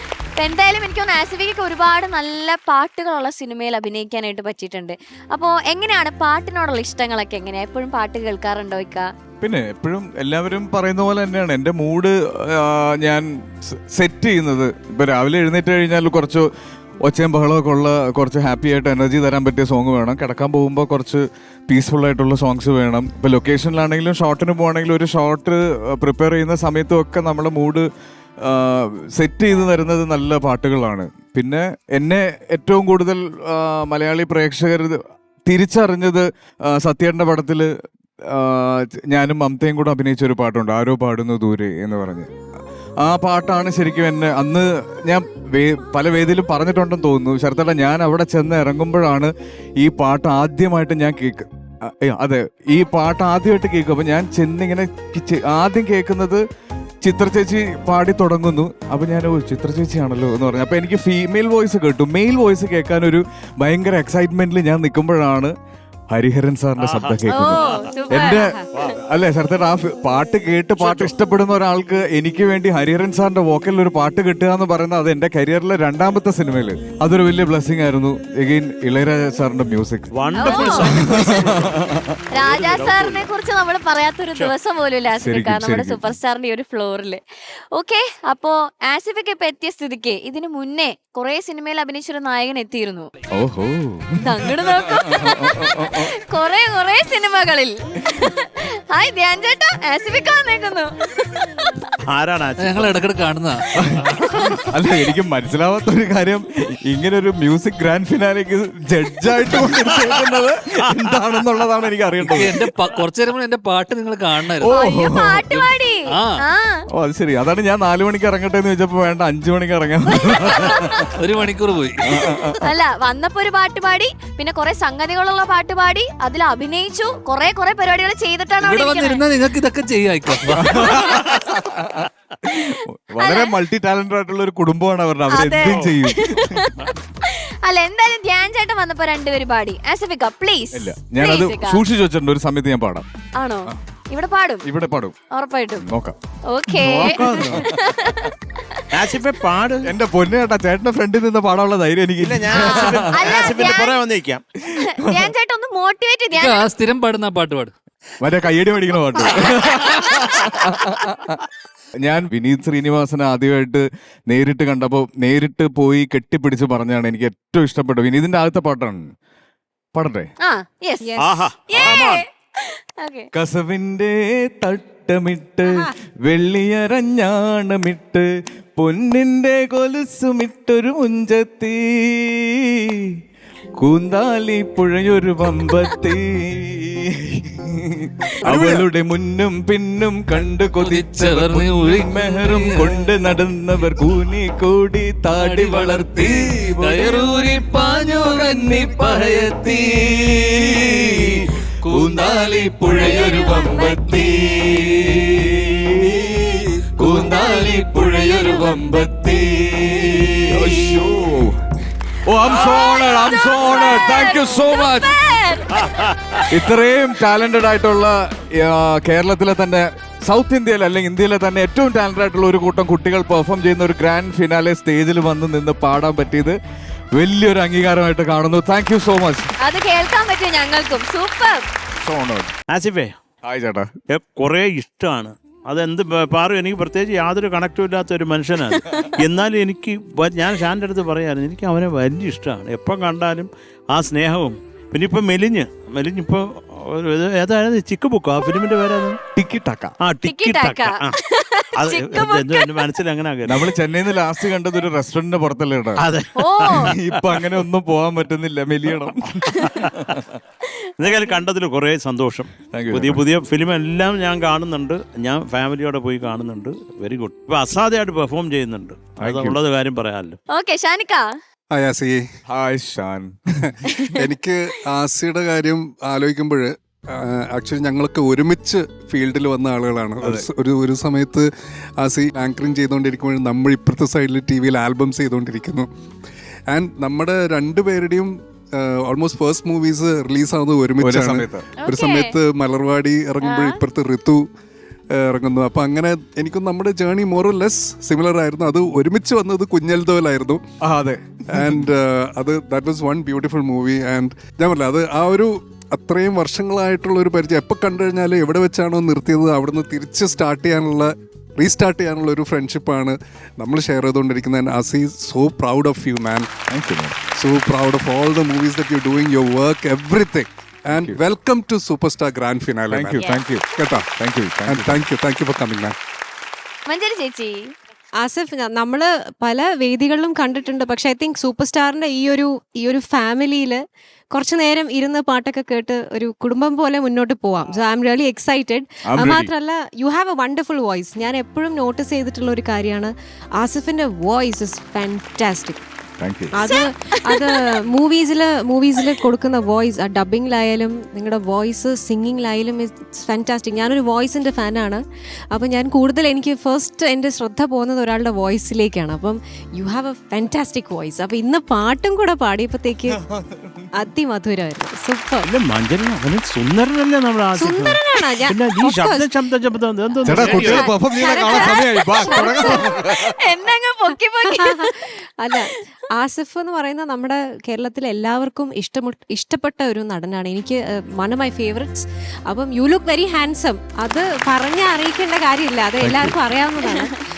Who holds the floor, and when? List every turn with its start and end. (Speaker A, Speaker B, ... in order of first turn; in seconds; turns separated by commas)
Speaker A: 0.4-9.1, Speaker B: 9.4-16.5, Speaker B: 17.0-27.9, Speaker B: 28.4-37.7, Speaker B: 38.2-42.3, Speaker B: 43.0-56.4, Speaker B: 57.0-65.5, Speaker B: 66.1-82.1, Speaker C: 66.8-67.9, Speaker A: 67.3-68.9, Speaker C: 68.7-69.0, Speaker C: 70.8-71.2, Speaker C: 80.1-81.8, Speaker A: 80.3-80.9, Speaker C: 82.3-83.3, Speaker A: 82.3-87.2, Speaker B: 85.2-86.2, Speaker A: 87.7-93.1, Speaker B: 93.4-96.1, Speaker A: 94.2-101.7, Speaker C: 102.1-103.0, Speaker D: 102.6-103.7, Speaker B: 103.8-112.6, Speaker D: 112.2-114.8, Speaker B: 114.6-115.5, Speaker A: 114.7-116.8, Speaker D: 115.5-116.4, Speaker B: 117.0-121.1, Speaker A: 120.2-121.2, Speaker D: 121.2-122.3, Speaker B: 122.0-122.7, Speaker A: 122.6-129.2, Speaker D: 128.6-130.7, Speaker B: 130.5-136.8, Speaker A: 130.6-131.3, Speaker A: 132.6-133.6, Speaker A: 135.3-141.8, Speaker C: 135.6-136.0, Speaker B: 140.7-143.1, Speaker A: 143.4-144.7, Speaker B: 144.6-145.2, Speaker A: 145.3-145.9, Speaker B: 145.8-146.2, Speaker A: 146.5-148.8, Speaker C: 146.8-147.7, Speaker B: 147.0-147.7, Speaker C: 148.9-149.9, Speaker B: 149.8-153.5, Speaker C: 152.2-154.4, Speaker A: 152.5-154.0, Speaker B: 154.6-155.3, Speaker A: 154.8-156.7, Speaker D: 156.3-157.7, Speaker B: 158.2-161.4, Speaker B: 162.0-169.1, Speaker B: 169.9-170.3, Speaker A: 170.4-171.2, Speaker E: 171.0-171.5, Speaker C: 171.2-172.2, Speaker A: 171.7-173.3, Speaker B: 173.3-183.2, Speaker E: 175.7-175.9, Speaker B: 183.8-211.6, Speaker D: 190.8-193.1, Speaker D: 195.3-199.5, Speaker D: 202.9-203.9, Speaker A: 203.1-203.9, Speaker A: 208.3-208.7, Speaker B: 212.3-215.2, Speaker A: 212.5-215.9, Speaker C: 215.7-216.5, Speaker B: 216.5-226.6, Speaker B: 227.1-229.5, Speaker A: 229.6-231.6, Speaker B: 232.0-232.5, Speaker C: 232.7-233.1, Speaker B: 233.4-233.9, Speaker C: 234.1-249.2, Speaker B: 249.4-250.0, Speaker C: 250.0-251.2, Speaker A: 250.2-252.8, Speaker C: 251.7-253.7, Speaker B: 253.4-256.0, Speaker C: 256.0-257.6, Speaker A: 256.4-256.9, Speaker B: 256.8-260.2, Speaker C: 259.6-260.2, Speaker C: 261.0-270.4, Speaker A: 261.1-261.4, Speaker B: 262.7-263.2, Speaker B: 269.2-269.6, Speaker A: 270.5-271.3, Speaker F: 271.7-272.2, Speaker B: 272.5-273.7, Speaker A: 273.9-274.2, Speaker F: 274.1-281.5, Speaker B: 280.2-280.5, Speaker F: 282.0-285.9, Speaker F: 286.7-294.4, Speaker B: 291.0-291.7, Speaker A: 291.8-292.4, Speaker A: 293.4-293.8, Speaker F: 295.1-300.6, Speaker B: 300.8-301.9, Speaker F: 301.5-316.5, Speaker B: 316.7-317.3, Speaker F: 317.3-323.1, Speaker B: 320.9-321.2, Speaker B: 322.9-325.0, Speaker F: 323.7-324.1, Speaker F: 324.7-325.9, Speaker A: 326.9-327.7, Speaker E: 328.2-333.8, Speaker E: 334.3-345.8, Speaker B: 339.1-339.5, Speaker B: 346.2-346.6, Speaker E: 346.5-355.0, Speaker A: 346.6-347.7, Speaker E: 355.5-363.2, Speaker B: 363.1-363.9, Speaker E: 363.9-365.5, Speaker C: 365.4-370.8, Speaker E: 367.6-369.3, Speaker B: 370.2-373.4, Speaker D: 370.4-370.9, Speaker E: 370.4-372.9, Speaker A: 370.5-375.8, Speaker E: 374.1-387.2, Speaker B: 386.0-386.4